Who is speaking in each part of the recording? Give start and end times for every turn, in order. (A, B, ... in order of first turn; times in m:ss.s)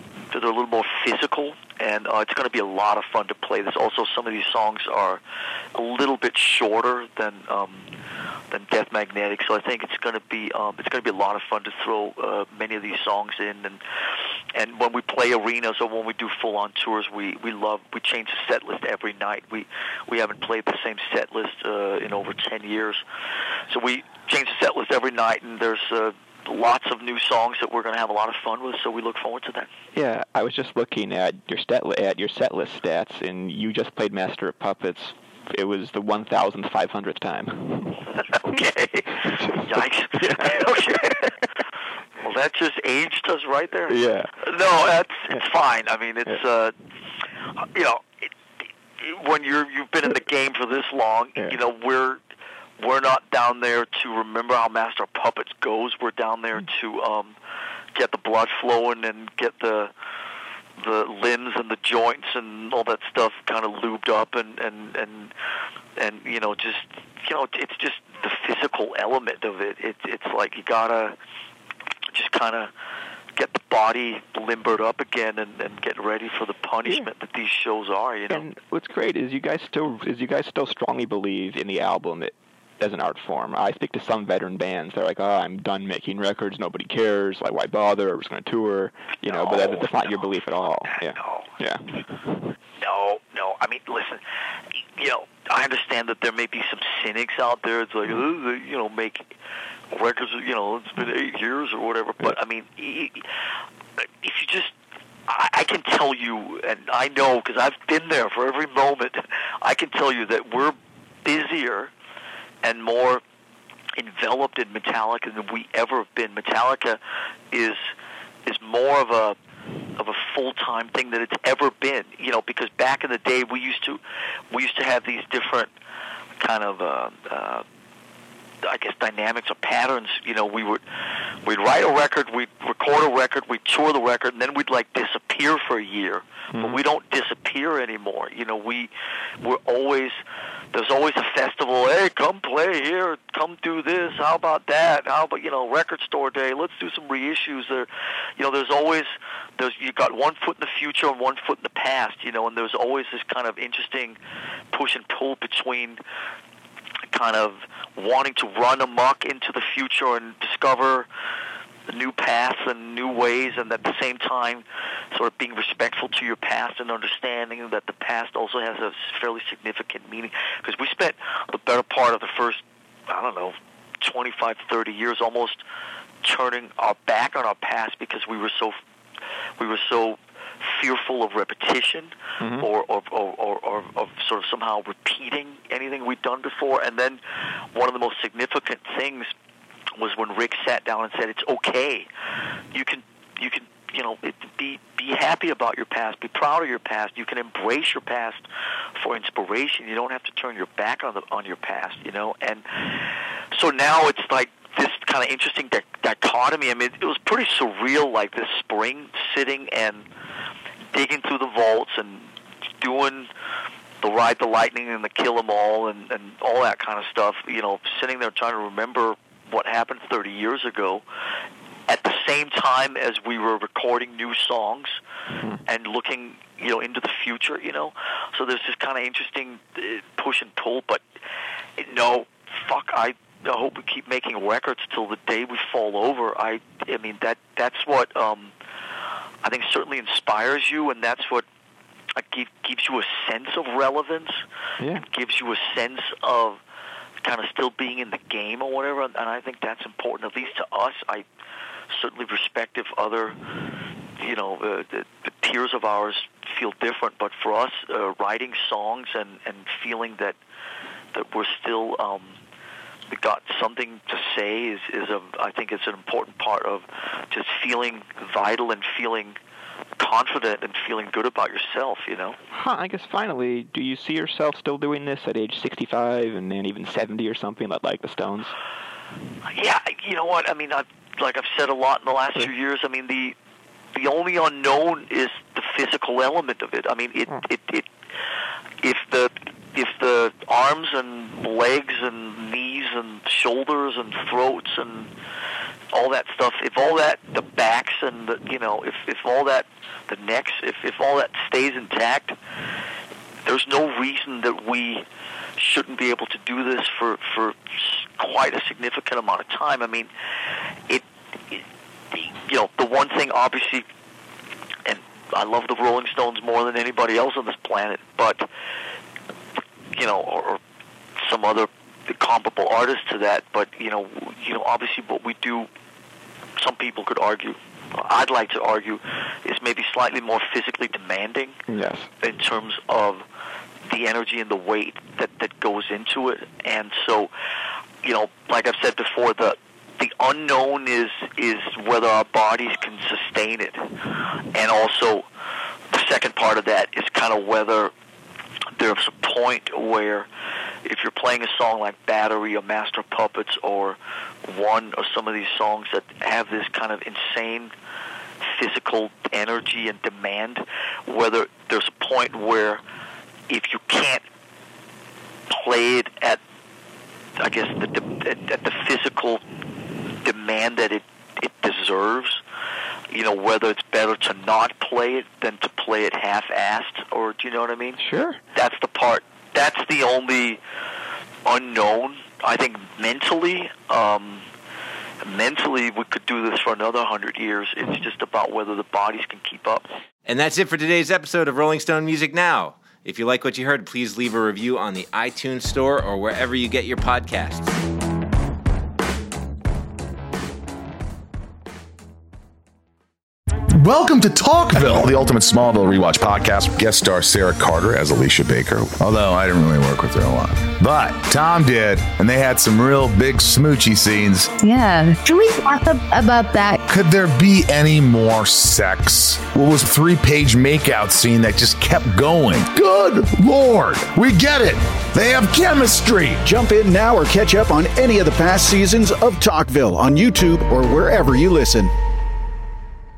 0:00.3-0:05.2 A
0:05.7-0:07.9 A
0:08.5-0:13.8 A
0:14.5-0:23.0 A
0:23.7-0:29.7 A
0:29.9-0:38.6 B
0:38.3-0:41.3 A
0:39.2-0:41.3 B
0:42.2-0:46.7 A
0:43.9-0:44.3 B
0:47.7-0:48.3 A
0:49.0-0:52.2 A
0:52.8-0:57.4 A
0:57.9-0:59.9 A
1:00.8-1:05.3 A
1:06.0-1:11.1 A
1:12.1-1:12.7 A
1:13.4-1:18.4 A
1:16.8-1:17.1 B
1:18.3-1:32.5 B
1:29.2-1:31.5 A
1:32.8-1:34.2 A
1:34.7-1:39.3 A
1:39.9-1:43.2 A
1:44.0-1:44.7 A
1:45.3-1:51.9 A
1:52.6-1:53.2 A
1:54.0-1:57.0 A
1:57.5-1:57.8 A
1:58.4-1:59.4 A
2:00.0-2:05.7 A
2:06.4-2:07.6 A
2:08.6-2:10.8 A
2:11.4-2:18.9 A
2:16.5-2:16.8 B
2:19.4-2:20.2 A
2:20.7-2:34.2 A
2:34.7-2:36.0 A
2:37.1-2:41.1 A
2:41.9-2:55.6 A
2:56.2-2:58.8 A
2:59.6-3:07.2 A
3:02.4-3:02.7 B
3:07.7-3:09.3 A
3:10.0-3:12.1 A
3:12.7-3:18.4 A
3:19.0-3:22.8 A
3:23.5-3:30.0 A
3:30.9-3:33.3 A
3:34.0-3:41.0 A
3:41.9-3:45.0 A
3:45.6-3:51.0 A
3:51.8-3:58.5 A
3:59.4-4:01.4 A
4:02.2-4:04.4 A
4:04.8-4:05.0 B
4:05.0-4:06.6 A
4:07.2-4:11.2 A
4:11.9-4:13.4 A
4:14.2-4:20.4 A
4:21.1-4:22.4 A
4:23.1-4:29.4 A
4:30.0-4:32.4 A
4:32.5-4:38.5 B
4:39.5-4:43.3 A
4:43.9-4:47.9 A
4:48.8-4:55.1 A
4:55.9-5:02.4 A
5:03.4-5:05.0 A
5:05.6-5:10.1 A
5:10.9-5:13.8 A
5:14.8-5:18.5 A
5:19.9-5:20.6 A
5:21.2-5:25.7 A
5:26.6-5:31.6 A
5:31.7-5:32.1 B
5:32.2-5:33.2 A
5:33.9-5:37.3 A
5:38.0-5:43.8 A
5:44.5-5:45.2 A
5:45.9-5:47.9 A
5:48.8-5:50.3 A
5:50.8-5:57.7 A
5:58.4-6:02.8 A
6:03.5-6:04.2 A
6:05.5-6:06.4 A
6:07.4-6:09.4 A
6:10.2-6:12.4 A
6:13.1-6:18.0 A
6:18.0-6:18.4 B
6:18.5-6:20.6 A
6:21.4-6:24.5 A
6:25.2-6:29.8 A
6:30.2-6:37.8 C
6:43.8-6:54.5 D
6:54.6-6:56.8 E
6:56.9-7:06.4 D
7:06.4-7:11.9 F